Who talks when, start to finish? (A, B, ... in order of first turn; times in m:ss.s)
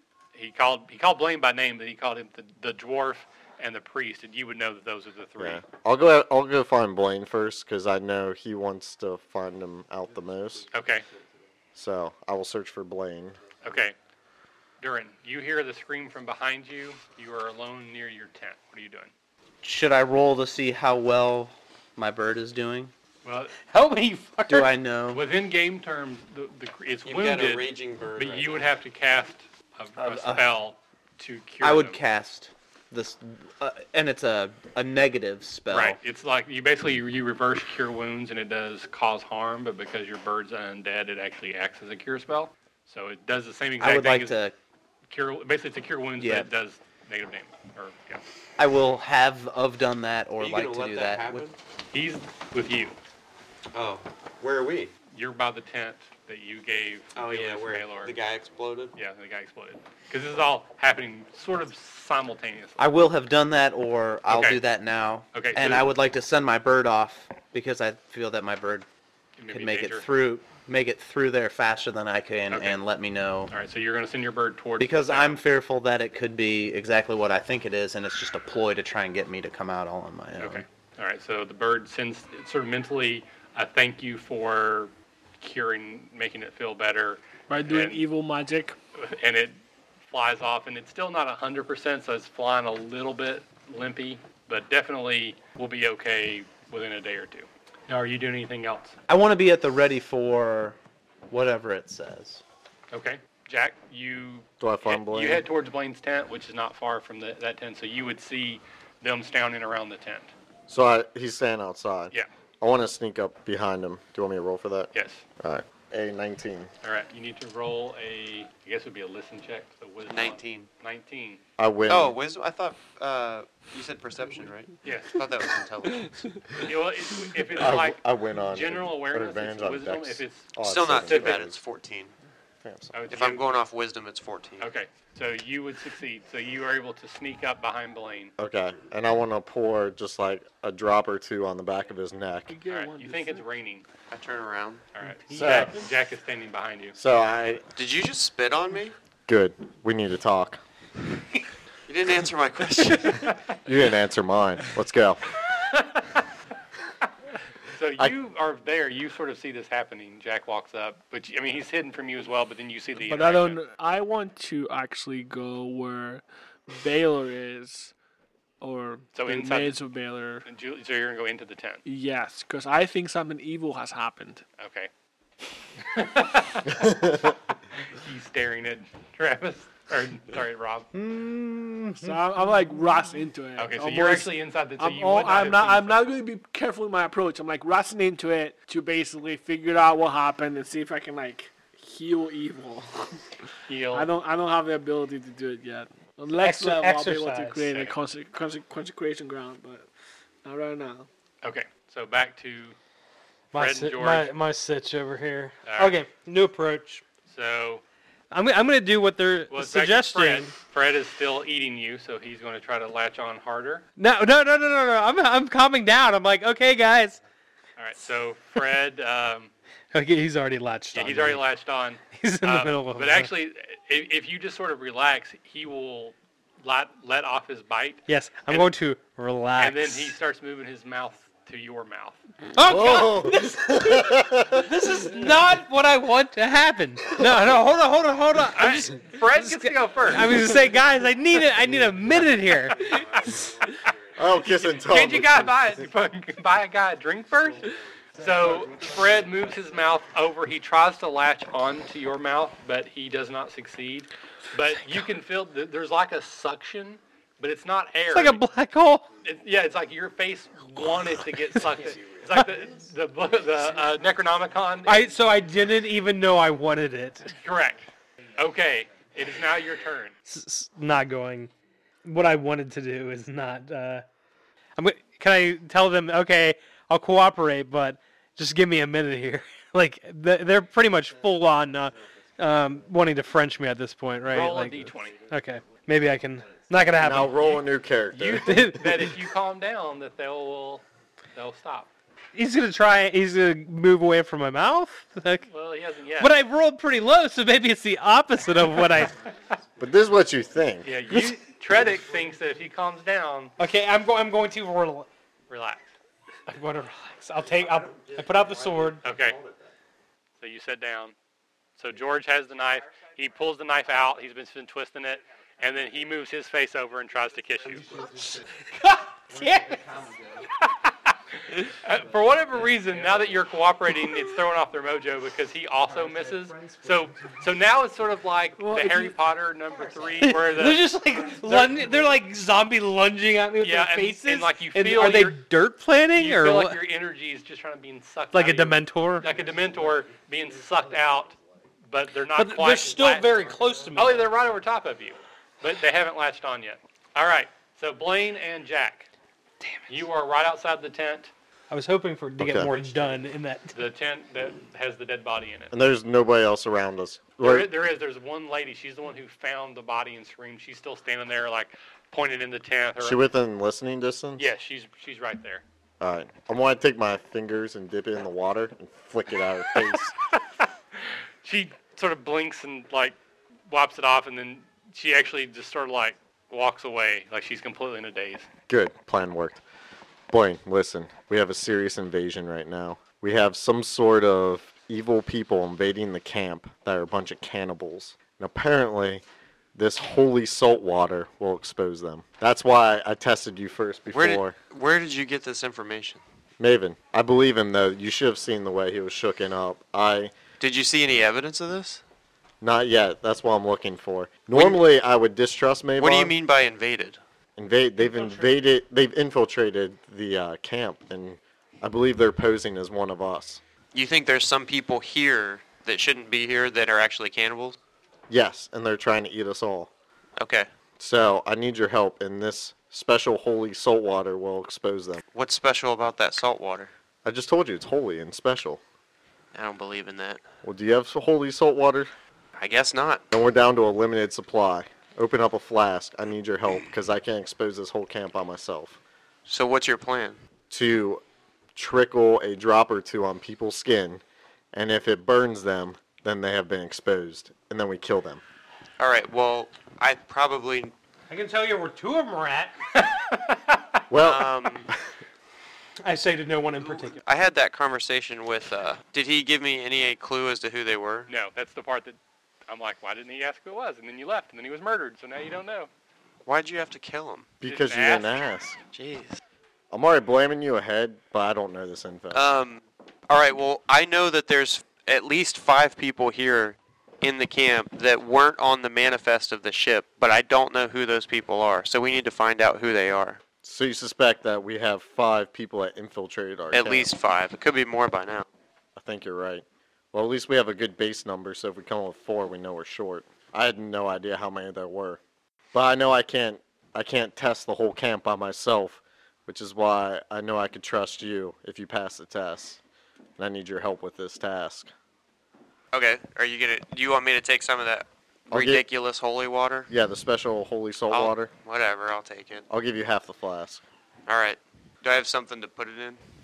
0:00.3-0:05.6 A
0:05.4-0:10.7 B
0:10.7-0:11.0 A
0:11.7-0:13.4 B
0:13.6-0:13.9 A
0:14.8-0:19.1 A
0:19.6-0:22.9 C
0:23.2-0:23.5 A
0:23.7-0:24.7 D
0:24.5-0:25.2 C
0:25.1-0:32.0 A
0:27.0-0:28.7 E
0:30.0-0:30.5 C
0:31.6-0:36.0 C
0:35.7-0:44.4 A
0:43.8-0:44.5 C
0:45.1-0:48.2 A
0:46.2-0:46.5 C
0:48.6-0:51.4 C
0:50.4-0:51.6 E
0:51.9-0:53.0 A
0:53.7-0:54.9 E
0:55.1-0:58.1 A
0:57.1-0:58.9 E
0:58.9-1:03.1 A
1:02.8-1:08.8 C
1:04.3-1:04.6 A
1:05.3-1:06.0 A
1:09.4-1:10.1 A
1:09.5-1:13.5 C
1:12.5-1:12.8 A
1:13.5-1:15.4 A
1:14.8-1:20.6 C
1:20.4-1:28.0 A
1:27.5-1:28.8 F
1:28.9-1:29.6 A
1:30.1-1:38.9 A
1:39.1-1:40.8 C
1:41.3-1:42.4 C
1:42.9-1:50.3 A
1:44.6-1:45.4 B
1:50.7-1:56.7 B
1:54.9-1:55.2 A
1:56.8-2:01.4 A
2:00.1-2:00.7 E
2:01.6-2:02.2 B
2:01.9-2:06.1 E
2:04.8-2:05.2 A
2:06.6-2:10.5 A
2:07.6-2:11.6 B
2:10.6-2:12.1 E
2:11.0-2:11.4 A
2:12.6-2:12.9 B
2:12.9-2:13.5 A
2:13.1-2:14.7 E
2:14.6-2:18.3 A
2:18.4-2:22.6 B
2:22.5-2:23.4 F
2:22.7-2:23.8 A
2:24.1-2:24.8 E
2:24.9-2:27.0 A
2:25.3-2:25.9 D
2:25.3-2:25.8 B
2:26.9-2:27.6 B
2:27.8-2:28.9 E
2:29.3-2:30.6 B
2:31.9-2:33.3 E
2:33.5-2:35.3 B
2:35.6-2:36.2 A
2:37.7-2:43.6 A
2:43.0-2:47.9 F
2:48.6-2:50.4 F
2:49.1-2:49.8 A
2:50.4-2:51.8 A
2:51.8-2:54.4 F
2:54.6-2:54.9 A
2:55.8-3:00.9 A
2:56.8-2:57.2 B
3:00.9-3:02.1 C
3:02.0-3:13.2 F
3:03.6-3:06.0 A
3:13.7-3:14.1 A
3:13.9-3:19.9 F
3:16.4-3:17.7 D
3:17.7-3:17.9 A
3:20.4-3:21.1 F
3:21.4-3:22.8 A
3:23.5-3:27.0 D
3:23.5-3:24.3 A
3:25.6-3:26.0 A
3:27.3-3:27.8 A
3:28.3-3:30.5 D
3:29.5-3:33.8 A
3:34.0-3:37.2 D
3:37.8-3:39.5 A
3:39.9-3:41.4 D
3:40.9-3:48.7 A
3:42.1-3:43.3 D
3:48.1-3:50.2 D
3:49.6-3:52.2 A
3:52.5-4:03.5 D
3:52.6-3:54.7 B
3:58.5-4:00.5 A
4:04.2-4:05.5 B
4:04.4-4:18.4 A
4:18.1-4:19.0 D
4:19.2-4:25.0 A
4:21.5-4:22.6 D
4:24.8-4:27.3 D
4:27.4-4:30.1 A
4:30.3-4:31.5 D
4:32.0-4:34.0 D
4:34.8-4:47.5 D
4:44.3-4:45.1 A
4:47.0-4:48.5 B
4:48.1-4:50.8 A
4:48.3-4:49.1 D
4:51.3-4:51.9 A
4:52.3-4:55.5 D
4:55.5-4:56.4 A
4:56.2-4:59.2 D
4:59.8-5:00.9 B
5:00.8-5:03.5 A
5:03.6-5:05.1 D
5:05.5-5:05.9 A
5:06.5-5:09.0 D
5:08.7-5:09.5 E
5:09.0-5:09.4 A
5:10.4-5:11.1 A
5:11.8-5:18.0 A
5:18.2-5:20.1 D
5:20.6-5:30.9 A
5:28.6-5:29.1 F
5:30.2-5:36.8 D
5:31.4-5:31.9 A
5:33.6-5:35.4 A
5:36.1-5:41.4 A
5:38.3-5:39.3 D
5:41.9-5:49.1 A
5:42.3-5:44.3 D
5:49.9-5:51.3 A
5:51.7-5:53.8 D
5:52.4-5:52.7 B
5:53.7-5:55.7 A
5:55.7-5:57.8 B
5:57.4-6:03.2 A
6:03.0-6:04.4 B
6:04.4-6:05.6 A
6:06.0-6:10.1 B
6:10.6-6:13.2 A
6:13.7-6:18.5 A
6:18.7-6:19.6 B
6:20.3-6:29.2 B
6:29.7-6:34.5 B
6:34.1-6:36.2 E
6:36.6-6:40.3 B
6:40.6-6:42.0 E
6:42.6-6:46.3 B
6:44.5-6:44.8 E
6:46.0-6:47.2 E
6:47.6-6:53.6 B
6:53.9-6:57.8 E
6:58.3-6:59.9 B
7:00.4-7:00.7 E
7:01.0-7:05.2 B
7:05.3-7:06.9 E
7:07.2-7:08.8 B
7:09.5-7:10.4 E
7:10.6-7:12.1 B
7:12.6-7:13.2 E
7:13.3-7:19.0 B
7:19.4-7:20.4 E
7:20.7-7:21.2 B
7:21.8-7:24.2 B
7:24.7-7:28.4 B
7:29.0-7:30.9 E
7:31.3-7:32.8 D
7:33.3-7:34.0 A
7:34.1-7:34.9 B
7:34.2-7:34.9 E
7:36.0-7:37.2 D
7:36.9-7:41.3 E
7:41.3-7:45.9 A
7:46.4-7:47.5 E
7:47.6-7:48.8 B
7:47.6-7:48.4 A
7:48.9-7:49.4 E
7:49.9-7:52.5 B
7:52.3-8:03.4 E
8:03.6-8:07.1 B
8:06.7-8:08.5 E
8:09.0-8:15.2 B
8:15.7-8:22.8 B
8:23.4-8:24.9 B
8:25.9-8:29.9 E
8:28.5-8:28.8 B
8:29.9-8:31.5 B
8:31.1-8:32.6 E
8:32.7-8:33.8 B
8:34.3-8:36.2 E